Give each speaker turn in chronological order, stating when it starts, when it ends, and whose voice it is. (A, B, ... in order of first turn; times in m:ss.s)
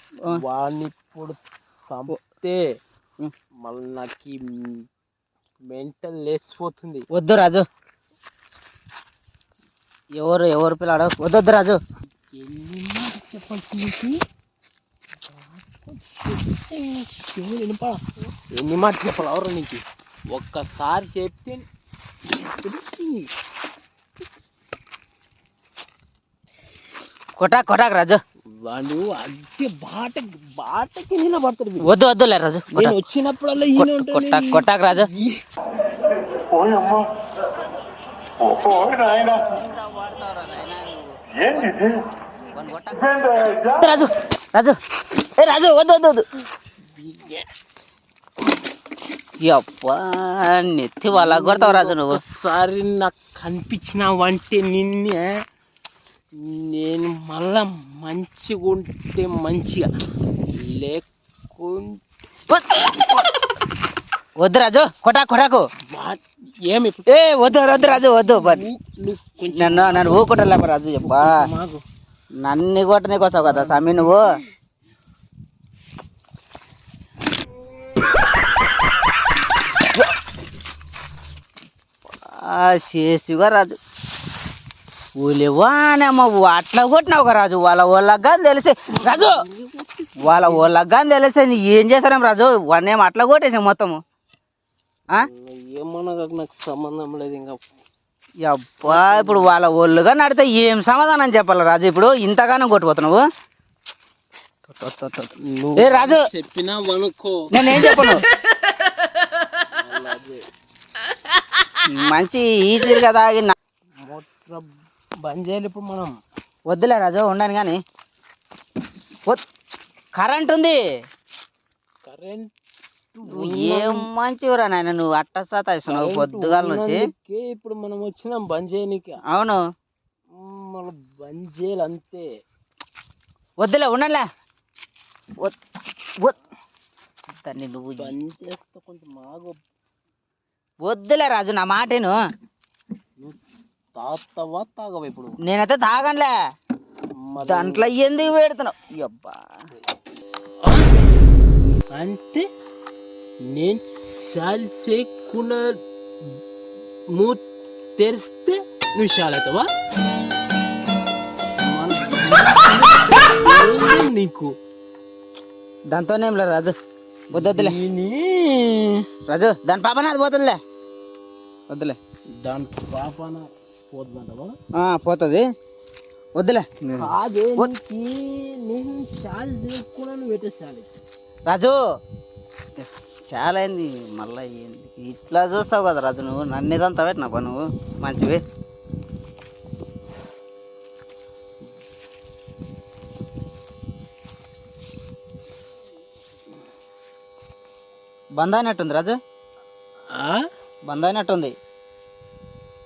0:00.3-0:02.6 A
0:03.6-0:04.8 A
0:05.7-0:07.1 A
0:07.1-0:07.6 B
0:10.2-0:11.8 B
0:12.3-0:14.2 A
0:15.3-0:21.7 A
0:22.3-0:23.3 A
0:27.4-0:28.2 B
0:28.6-0:31.9 A
0:31.8-0:33.0 B
0:32.7-0:35.4 A
0:33.8-0:35.1 B
0:38.4-0:42.0 B
0:42.5-0:44.8 B
0:45.4-0:46.2 B
0:46.9-0:47.5 A
0:49.4-0:52.2 B
0:51.1-0:55.3 A
0:56.4-0:59.9 A
1:00.6-1:01.0 A
1:01.6-1:02.0 A
1:02.5-1:03.1 B
1:04.4-1:05.6 B
1:05.9-1:10.3 A
1:07.1-1:08.6 B
1:09.6-1:11.3 B
1:11.0-1:11.8 A
1:12.4-1:14.4 B
1:13.4-1:14.1 A
1:22.1-1:23.8 B
1:25.2-1:29.4 B
1:29.0-1:30.7 A
1:30.2-1:34.0 B
1:35.2-1:37.6 A
1:38.4-1:43.2 B
1:38.8-1:39.5 A
1:44.7-1:46.2 B
1:45.4-1:48.2 A
1:47.5-1:48.2 B
1:49.4-1:50.4 A
1:51.9-1:53.5 B
1:54.0-1:54.7 A
1:55.2-1:56.1 A
1:56.7-1:57.8 B
2:00.2-2:00.8 B
2:02.0-2:02.5 A
2:03.2-2:04.0 A
2:03.3-2:07.0 B
2:05.9-2:09.2 A
2:09.3-2:09.6 B
2:10.3-2:12.3 A
2:13.6-2:14.3 B
2:17.4-2:18.1 B
2:18.0-2:19.6 A
2:20.8-2:22.2 B
2:24.0-2:25.4 A
2:25.4-2:26.3 B
2:27.3-2:28.3 A
2:27.4-2:29.5 B
2:30.6-2:30.9 A
2:31.9-2:32.5 A
2:33.5-2:35.8 A
2:37.1-2:37.4 A
2:38.0-2:39.7 A
2:41.6-2:44.5 A
2:45.9-2:46.7 B
2:47.3-2:47.8 B
2:47.4-2:49.1 A
2:49.3-2:50.6 B
2:51.7-2:52.0 B
2:52.4-2:54.5 A
2:54.8-2:55.4 B
2:56.4-2:57.7 B
2:57.0-3:00.9 A
3:01.5-3:01.8 B
3:02.8-3:08.4 B
3:18.4-3:19.2 B
3:20.1-3:20.4 A
3:20.9-3:21.5 B